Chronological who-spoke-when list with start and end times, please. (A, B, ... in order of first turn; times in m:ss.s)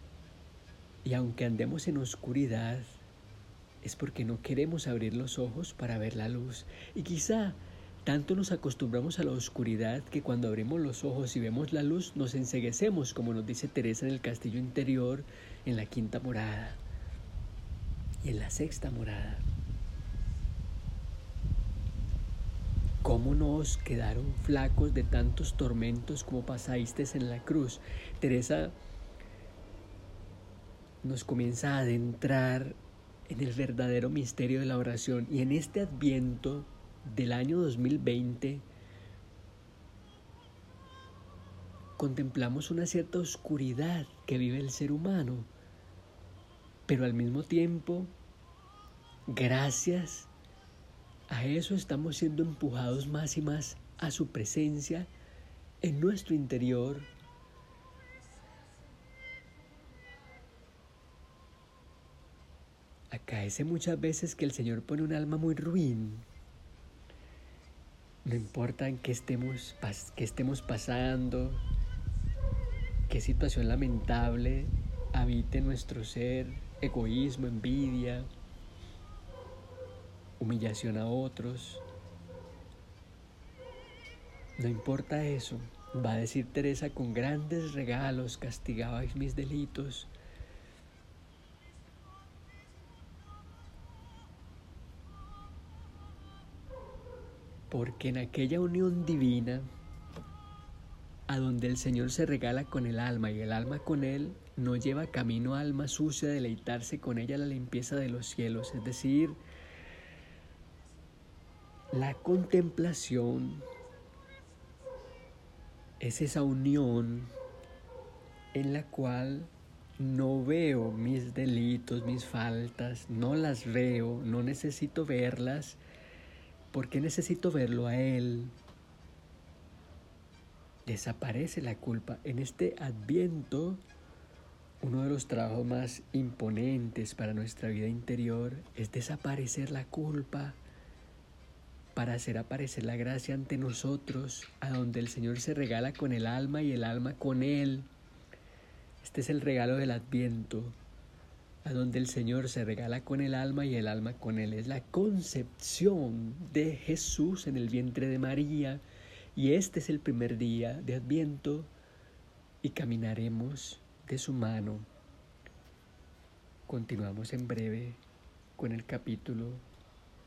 0:01.0-0:03.0 A
0:03.8-0:16.8 A
0:18.2-0:19.4 A
0:23.0-0:28.8 A
0:31.0-0:38.6 A
0:42.0-0:45.5 A
0:46.9-0:48.1 A
0:49.3-0:50.3 A
0:51.3-0:55.1 A
0:55.8-0:57.1 A
1:03.1-1:06.2 A
1:08.2-1:11.6 A
1:13.1-1:18.3 A
1:20.4-1:21.8 A
1:24.6-1:30.1 A
1:37.7-1:39.7 A
1:41.3-1:49.4 A
1:51.9-1:53.6 A
1:56.0-1:57.3 A
1:58.5-2:05.8 A
2:06.7-2:08.5 A
2:10.8-2:13.8 A
2:14.8-2:20.6 A
2:21.9-2:27.9 A
2:29.0-2:30.8 A
2:31.6-2:38.8 A
2:39.3-2:41.7 A
2:42.6-2:44.9 A
2:46.7-2:48.0 A
2:48.6-2:49.6 A